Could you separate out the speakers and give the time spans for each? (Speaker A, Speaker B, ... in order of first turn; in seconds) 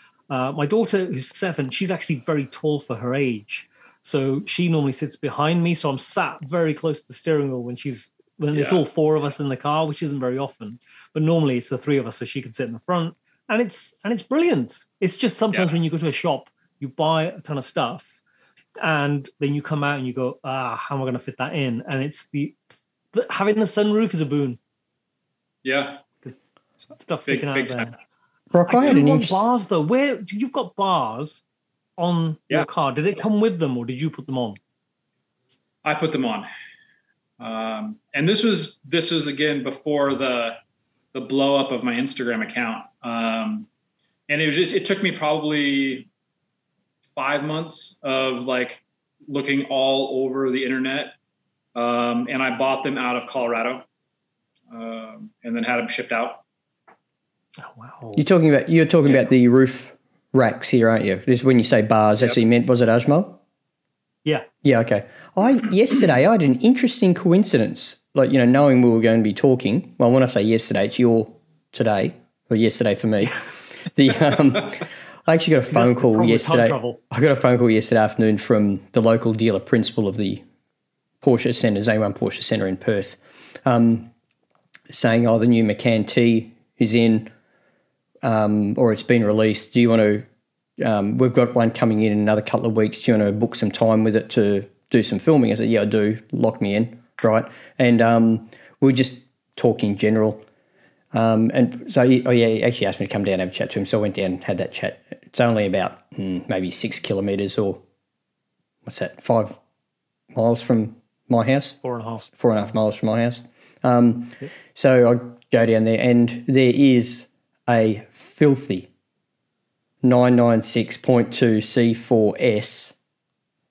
Speaker A: 0.3-18.1, 18.8-22.6, 23.1-24.6, 26.9-28.0, 28.7-31.4, 32.0-34.6, 57.6-58.2, 75.7-77.0, 111.8-112.3
Speaker B: 8.5-8.8, 25.6-26.0, 27.3-27.9, 35.8-36.5, 37.4-40.6, 41.1-43.7, 44.3-46.1, 47.1-51.1, 51.7-53.9, 54.7-56.4
Speaker C: 28.5-29.4, 58.1-63.4, 64.6-80.4, 81.2-84.1, 84.9-87.3, 88.2-90.2, 90.8-100.4, 101.1-107.8, 108.8-109.6, 110.3-118.9, 120.0-123.0